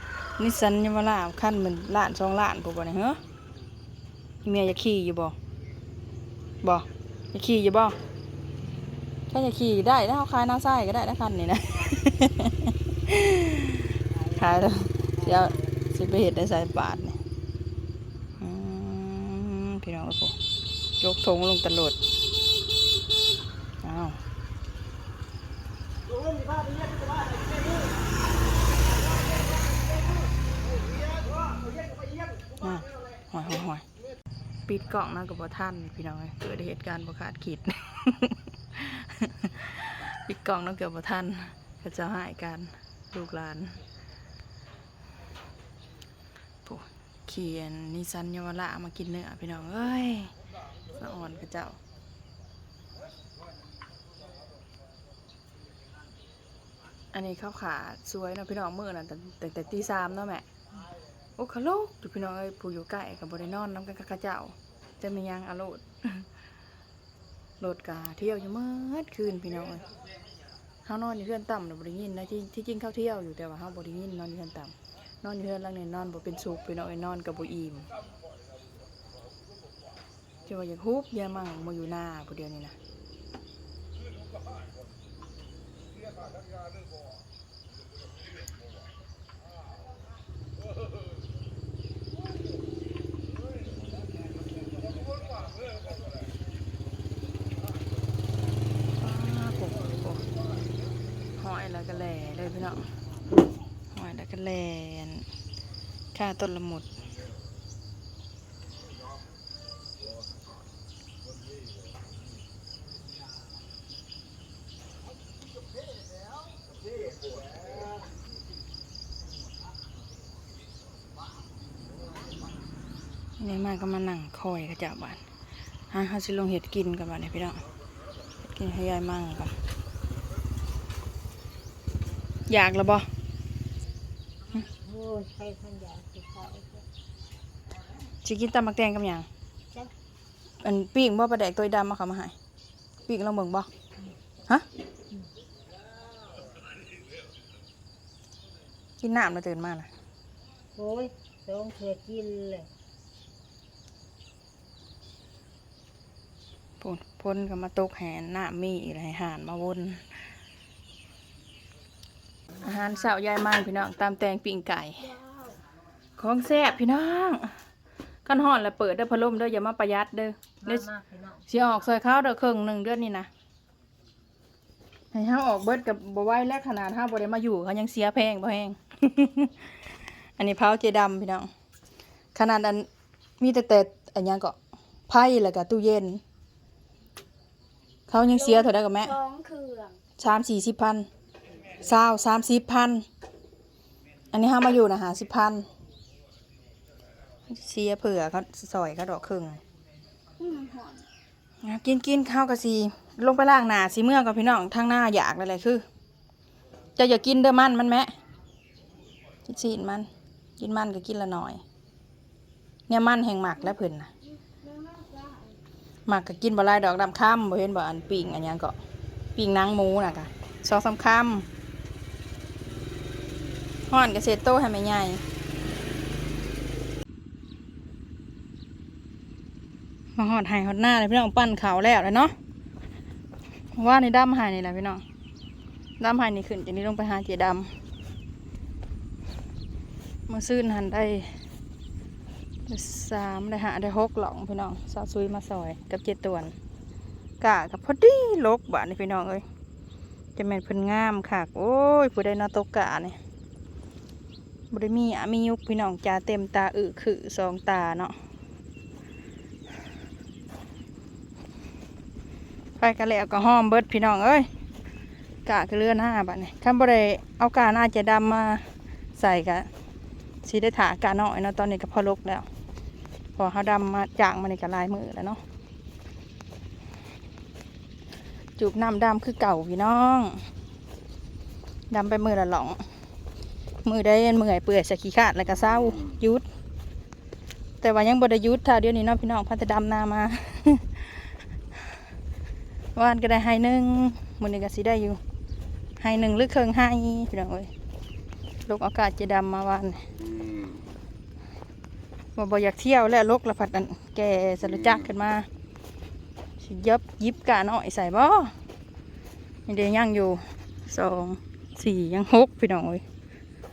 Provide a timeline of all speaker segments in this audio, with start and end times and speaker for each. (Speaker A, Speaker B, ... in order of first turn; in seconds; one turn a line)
Speaker A: 0.4-3.2
Speaker A: 4.4-5.3
Speaker A: 6.6-8.0
Speaker A: 9.3-17.2
Speaker B: 11.7-12.3
Speaker B: 14.0-15.9
Speaker A: 18.4-20.4
Speaker A: 21.0-22.0
Speaker A: 23.8-24.2
Speaker A: 32.6-33.8
Speaker A: 34.7-43.8
Speaker A: 46.6-50.3
Speaker A: 50.9-51.8
Speaker A: 57.1-60.5
Speaker A: 61.4-66.3
Speaker A: 67.6-69.9
Speaker A: 70.8-77.9
Speaker A: 80.5-82.8
Speaker A: 99.0-100.2
Speaker A: 101.4-102.9
Speaker A: 103.9-105.3
Speaker A: 106.1-106.9
Speaker A: 123.4-125.2
Speaker A: 125.9-127.6
Speaker A: 128.4-129.5
Speaker A: 132.5-133.1
Speaker B: 134.5-136.8
Speaker A: 138.2-139.3
Speaker A: 140.6-142.3
Speaker A: 143.1-143.7
Speaker A: 149.0-149.9
Speaker B: 150.7-152.7
Speaker A: 156.8-160.1
Speaker A: 162.6-165.2
Speaker A: 166.2-167.6
Speaker A: 168.2-170.9
Speaker B: 170.6-171.5
Speaker A: 171.5-173.3
Speaker A: 175.1-179.5
Speaker A: 180.4-181.5
Speaker A: 182.3-182.9
Speaker A: 183.4-184.6
Speaker A: 185.1-186.2
Speaker A: 188.1-189.2
Speaker C: 188.7-189.9
Speaker A: 190.2-191.1
Speaker A: 191.7-193.1
Speaker A: 194.3-195.7
Speaker A: 197.5-199.6
Speaker C: 200.4-201.1
Speaker A: 201.6-205.8
Speaker A: 207.0-208.1
Speaker A: 209.4-211.6
Speaker A: 212.9-214.1
Speaker B: 214.7-215.4
Speaker A: 216.1-218.8
Speaker A: 219.3-221.5
Speaker A: 223.9-225.2
Speaker A: 230.2-232.3
Speaker A: 233.7-235.0
Speaker A: 236.0-237.7
Speaker A: 240.3-241.4
Speaker A: 242.7-246.5
Speaker A: 247.4-249.4
Speaker A: 250.3-253.2
Speaker A: 254.7-258.1
Speaker A: 262.8-264.5
Speaker A: 265.4-269.7
Speaker A: 270.4-272.5
Speaker A: 273.4-275.4
Speaker A: 278.6-280.4
Speaker A: 281.9-282.8
Speaker A: 283.8-286.4
Speaker A: 287.8-291.3
Speaker A: 292.9-295.2
Speaker A: 296.0-297.7
Speaker A: 298.6-300.1
Speaker A: 302.4-305.5
Speaker A: 306.6-308.5
Speaker A: 309.6-313.0